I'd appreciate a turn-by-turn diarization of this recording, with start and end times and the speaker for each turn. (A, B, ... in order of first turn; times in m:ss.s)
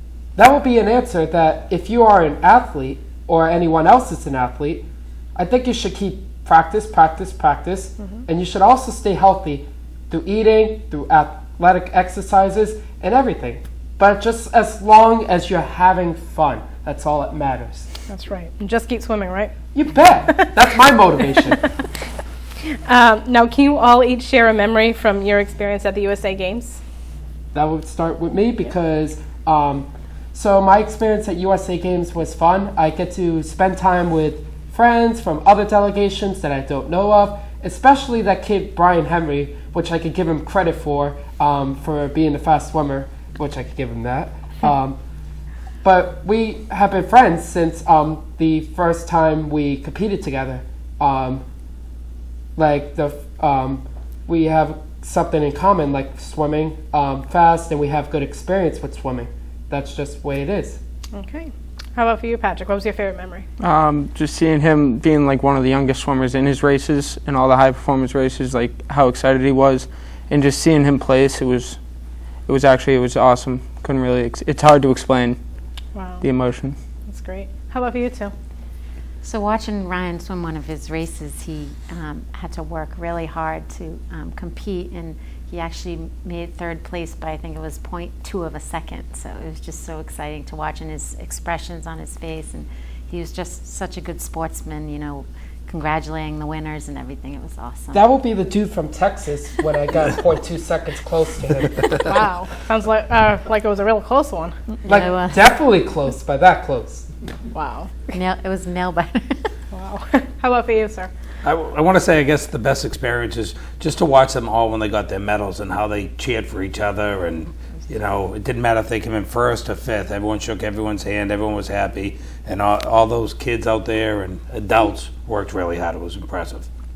0:00.4-0:17.9 A
0:08.0-0:08.2 B
0:18.1-0:19.6 B
0:19.7-0:21.6 A
0:20.3-0:20.6 B
0:22.9-0:26.8 B
0:27.5-0:45.0 A
0:45.8-0:51.4 A
0:52.6-1:00.8 A
1:01.1-1:03.4 B
1:03.6-1:11.9 C
1:12.5-1:15.4 C
1:15.9-1:16.2 B
1:16.2-1:16.8 C
1:17.0-1:18.3 B
1:19.2-1:38.1 D
1:37.9-1:42.2 A
1:42.1-1:44.6 B
1:44.8-1:47.1 A
1:44.9-1:45.5 D
1:47.5-1:48.1 B
1:48.1-1:49.5 D
1:49.7-1:51.1 B
1:51.4-2:06.7 E